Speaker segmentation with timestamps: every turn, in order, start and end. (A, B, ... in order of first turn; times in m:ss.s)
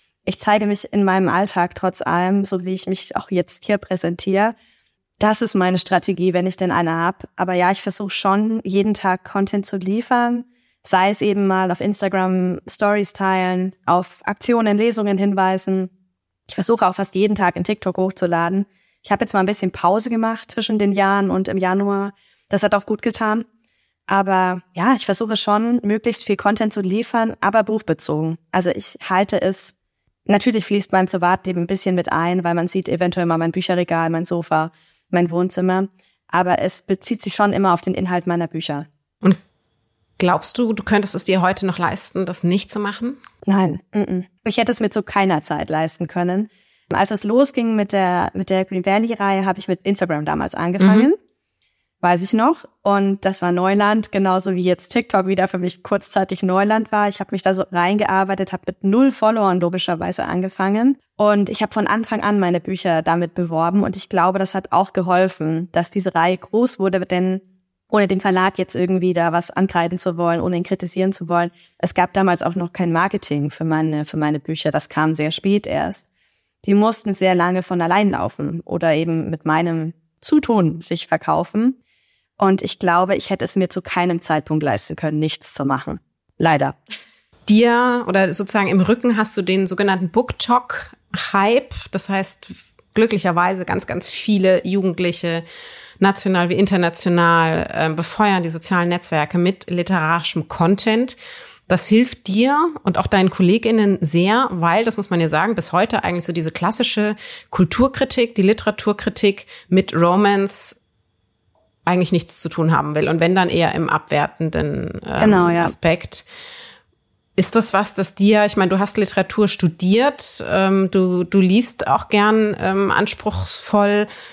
0:00.3-0:04.5 A
0:05.2-0:15.9 A
0:16.5-0:23.4 A
0:24.1-0:29.8 A
0:30.3-0:38.9 A
0:40.2-0:43.2 B
0:43.5-0:51.2 A
0:50.8-0:51.1 B
0:52.0-1:16.1 A
1:16.6-1:21.8 A
1:22.4-1:26.8 A
1:27.5-1:35.4 B
1:36.0-1:41.2 B
1:41.7-1:50.8 B
1:51.9-1:56.3 B
1:55.2-1:55.7 A
1:57.4-2:04.1 B